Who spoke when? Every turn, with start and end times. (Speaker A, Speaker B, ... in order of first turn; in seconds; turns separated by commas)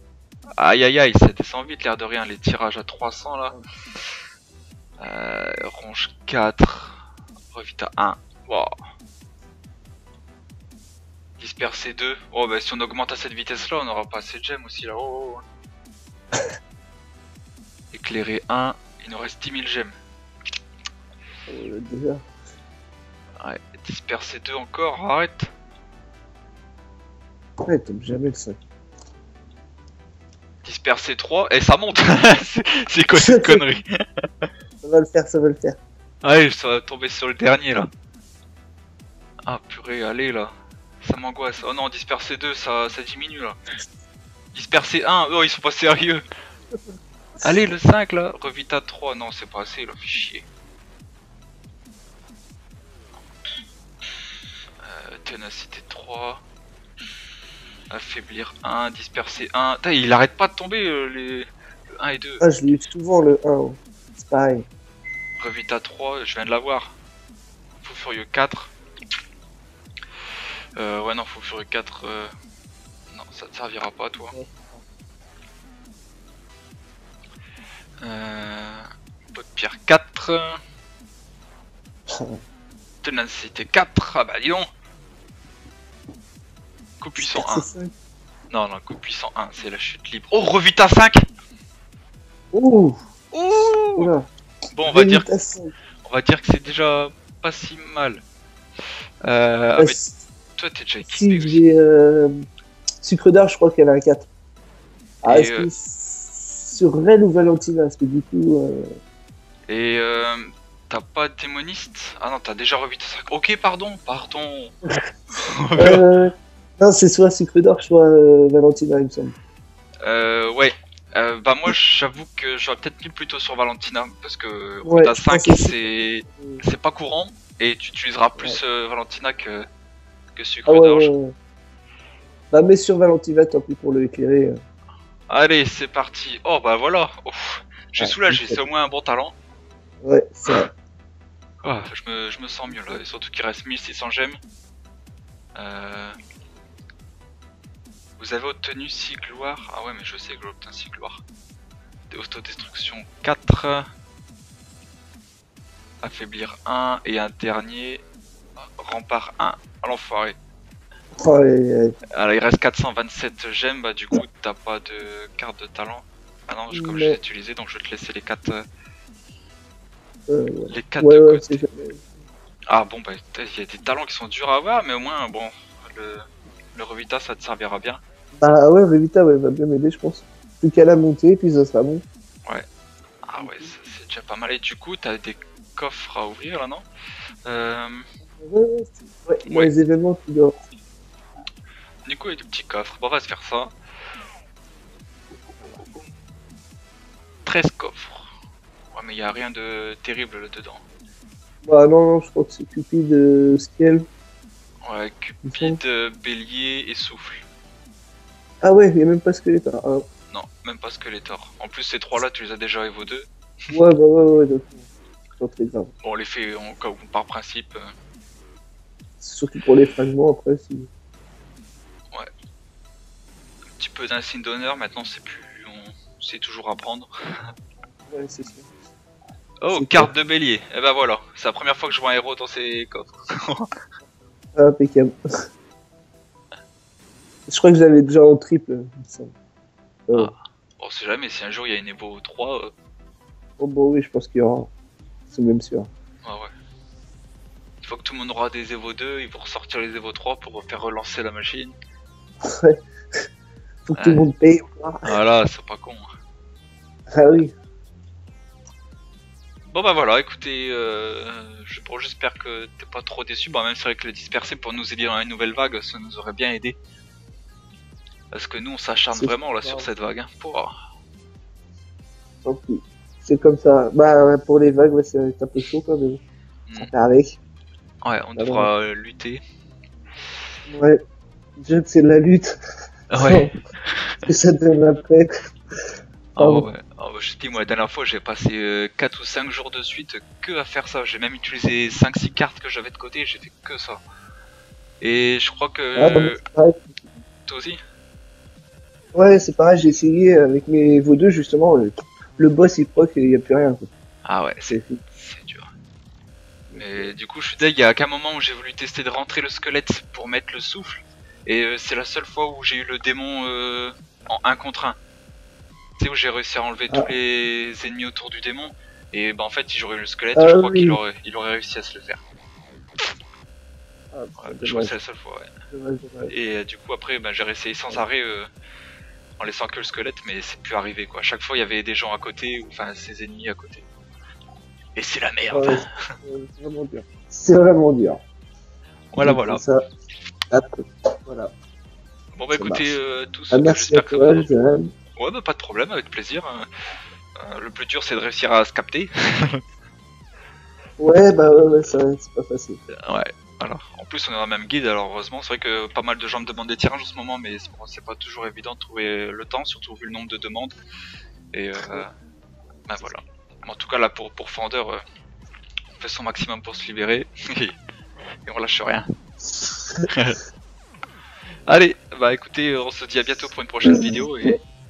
Speaker A: 0.6-3.6, Speaker A: 5.0-8.7, Speaker A: 11.4-15.4, Speaker A: 17.9-19.9, Speaker B: 21.5-22.2, Speaker A: 23.4-25.5, Speaker B: 27.6-28.6, Speaker A: 30.6-33.9, Speaker B: 33.2-33.7, Speaker B: 34.8-35.8, Speaker A: 36.2-37.9, Speaker A: 39.5-43.6, Speaker A: 44.5-46.2, Speaker A: 47.4-50.5, Speaker A: 54.8-56.4, Speaker A: 57.9-62.4, Speaker B: 62.4-64.7, Speaker A: 65.4-67.0, Speaker A: 67.8-68.7, Speaker A: 70.8-72.3, Speaker A: 73.1-74.4, Speaker B: 74.3-74.8, Speaker A: 78.0-80.6, Speaker B: 82.1-82.4, Speaker A: 83.0-84.7, Speaker A: 87.0-87.7, Speaker B: 87.2-87.9, Speaker A: 88.5-91.2, Speaker B: 92.5-93.0, Speaker A: 93.3-94.1, Speaker B: 94.0-94.3, Speaker A: 94.7-95.3, Speaker B: 94.8-95.7, Speaker A: 96.0-98.2, Speaker A: 99.2-100.0, Speaker B: 99.8-100.2, Speaker A: 100.6-101.6, Speaker B: 101.0-102.4, Speaker B: 103.0-104.3, Speaker B: 105.2-108.9, Speaker A: 105.3-105.7, Speaker A: 109.7-114.8, Speaker A: 115.4-116.0, Speaker B: 115.8-119.3, Speaker A: 120.0-129.7, Speaker B: 124.8-125.9, Speaker A: 130.3-131.1, Speaker B: 130.7-131.3, Speaker B: 132.5-134.6, Speaker A: 135.3-139.3, Speaker B: 138.0-138.6, Speaker B: 140.0-140.7, Speaker A: 141.6-144.4, Speaker A: 145.6-146.2, Speaker A: 148.2-151.2, Speaker A: 152.1-153.9, Speaker A: 156.0-158.0, Speaker A: 158.6-160.4, Speaker B: 161.2-162.0, Speaker A: 162.1-168.6, Speaker B: 166.7-167.2, Speaker B: 170.3-172.1, Speaker A: 170.7-171.7, Speaker A: 172.7-178.0, Speaker B: 178.4-182.0, Speaker A: 183.2-186.9, Speaker B: 183.4-183.7, Speaker A: 187.5-188.0, Speaker B: 188.3-190.6, Speaker A: 189.5-189.7, Speaker A: 192.1-193.7, Speaker A: 195.6-196.1, Speaker A: 197.4-198.3, Speaker A: 198.9-200.8, Speaker B: 201.6-204.1, Speaker A: 204.8-207.4, Speaker B: 205.5-205.8, Speaker B: 208.6-210.1, Speaker A: 210.3-213.3, Speaker B: 213.7-215.9, Speaker A: 216.0-217.9, Speaker B: 219.2-220.9, Speaker A: 223.7-227.1, Speaker B: 228.1-228.7, Speaker A: 229.6-233.7, Speaker B: 229.7-230.1, Speaker B: 234.6-235.1, Speaker B: 237.5-239.3, Speaker A: 240.1-242.7, Speaker B: 243.6-244.7, Speaker B: 245.3-245.9, Speaker A: 247.8-251.8, Speaker B: 252.4-252.8, Speaker B: 253.9-255.2, Speaker A: 253.9-254.3, Speaker A: 255.0-256.1, Speaker B: 257.1-257.5, Speaker A: 259.7-266.8, Speaker A: 268.3-270.7, Speaker B: 269.1-269.9, Speaker B: 272.4-276.2, Speaker A: 276.7-276.9, Speaker B: 276.8-277.3, Speaker A: 278.0-279.4, Speaker B: 278.4-278.7, Speaker B: 280.7-281.0, Speaker B: 281.6-282.6, Speaker A: 283.1-284.1, Speaker B: 283.1-283.5, Speaker B: 284.3-285.3, Speaker A: 286.4-294.0, Speaker B: 286.4-286.7, Speaker A: 295.0-296.4, Speaker B: 296.0-297.0, Speaker A: 297.5-297.8, Speaker B: 299.1-303.9, Speaker A: 304.2-305.7, Speaker B: 304.7-305.0, Speaker B: 306.7-307.1, Speaker A: 306.8-315.0, Speaker A: 316.0-322.2, Speaker B: 320.4-321.0, Speaker B: 324.1-325.0, Speaker A: 324.4-325.5, Speaker B: 325.7-326.3, Speaker A: 326.3-328.5, Speaker A: 329.4-333.9, Speaker A: 334.9-336.1, Speaker B: 335.5-338.2, Speaker A: 339.1-339.6, Speaker B: 339.2-339.8, Speaker B: 340.5-341.5, Speaker A: 342.4-344.5, Speaker B: 342.5-343.0, Speaker B: 343.5-344.9, Speaker A: 345.2-346.7, Speaker A: 347.4-349.6, Speaker B: 351.0-352.8, Speaker A: 353.1-360.8, Speaker A: 361.5-362.1, Speaker A: 362.9-365.0, Speaker A: 366.0-367.8, Speaker A: 368.5-369.1, Speaker A: 370.1-370.4, Speaker A: 371.7-374.6, Speaker B: 373.9-374.2